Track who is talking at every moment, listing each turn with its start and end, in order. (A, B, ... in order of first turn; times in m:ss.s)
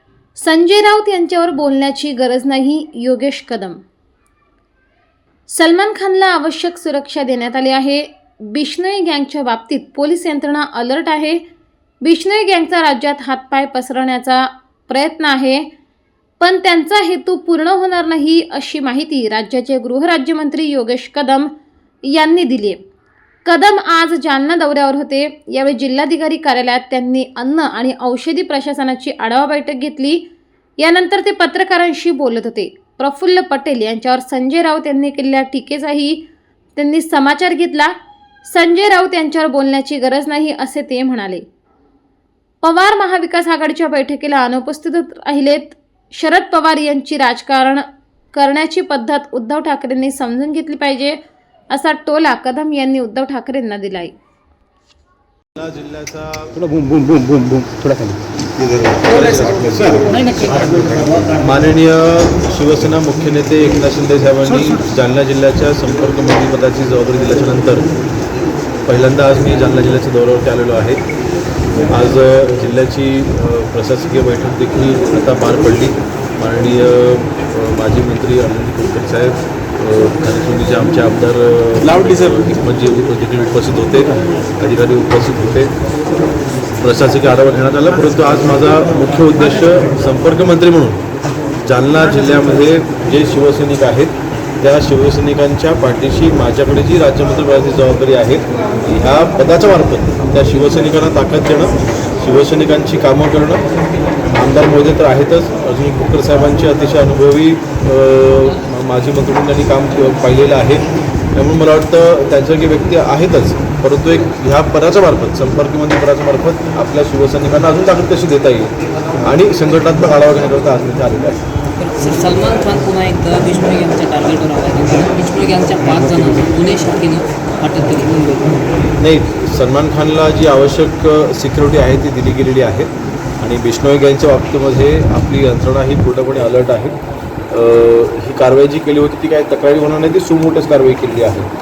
0:00.3-0:03.8 A
0:05.5-0:11.4 A
0:12.0-0:15.7 A
0:16.4-0:21.5 A
0:22.0-0:22.8 A
0:23.4-0:30.2 A
0:30.8-0:36.2 A
0:36.8-0:37.9 A
0:38.4-0:41.5 A
0:42.6-0:51.2 A
0:51.7-0:54.1 A
0:55.5-0:56.5 B
0:56.5-1:01.3 C
0:59.1-1:00.0 B
0:59.1-1:01.3 D
1:01.4-1:07.9 B
1:08.9-1:11.0 B
1:11.9-1:25.7 B
1:26.8-1:31.0 B
1:31.6-1:43.6 B
1:44.3-1:50.8 B
1:51.3-1:58.7 B
1:59.2-2:01.4 B
2:01.8-2:08.6 D
2:09.0-2:12.9 B
2:13.4-2:17.0 B
2:17.5-2:21.5 B